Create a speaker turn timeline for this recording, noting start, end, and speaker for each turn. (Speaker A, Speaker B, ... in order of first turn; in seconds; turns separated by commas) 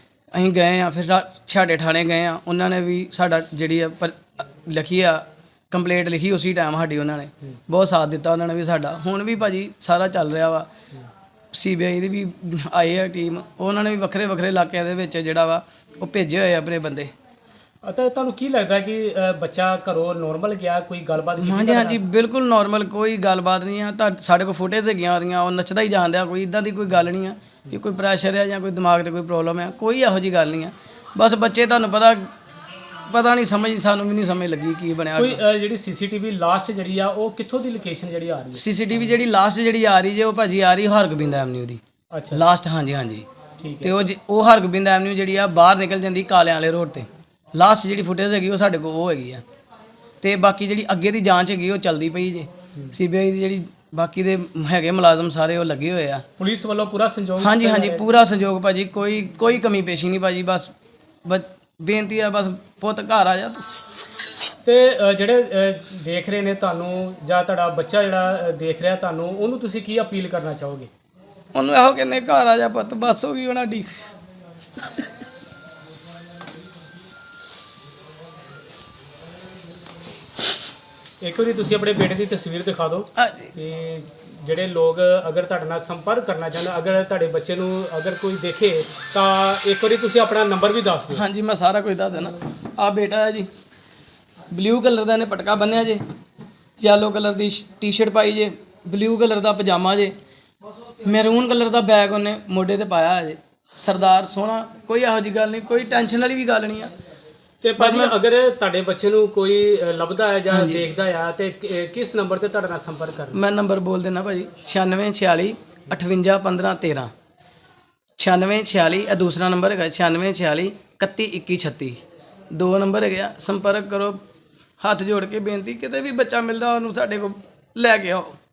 Speaker A: 0.3-10.7, Speaker A: 11.5-17.1, Speaker B: 17.8-22.0, Speaker A: 21.4-32.3, Speaker A: 33.1-35.4, Speaker B: 35.2-38.6, Speaker A: 38.5-41.8, Speaker B: 42.1-42.4, Speaker A: 42.3-43.3, Speaker B: 43.6-44.0, Speaker A: 43.8-49.4, Speaker A: 50.2-56.2, Speaker B: 56.4-58.1, Speaker A: 57.4-60.7, Speaker A: 61.2-63.6, Speaker B: 64.7-70.9, Speaker A: 71.5-73.9, Speaker B: 81.2-91.2, Speaker A: 83.2-83.5, Speaker A: 91.1-93.5, Speaker A: 94.5-96.0, Speaker A: 96.8-100.1, Speaker A: 101.0-106.9, Speaker B: 107.6-113.4, Speaker A: 107.8-108.1, Speaker A: 110.5-110.9, Speaker A: 113.3-117.1, Speaker A: 118.2-122.0, Speaker A: 122.5-124.2, Speaker A: 124.8-128.3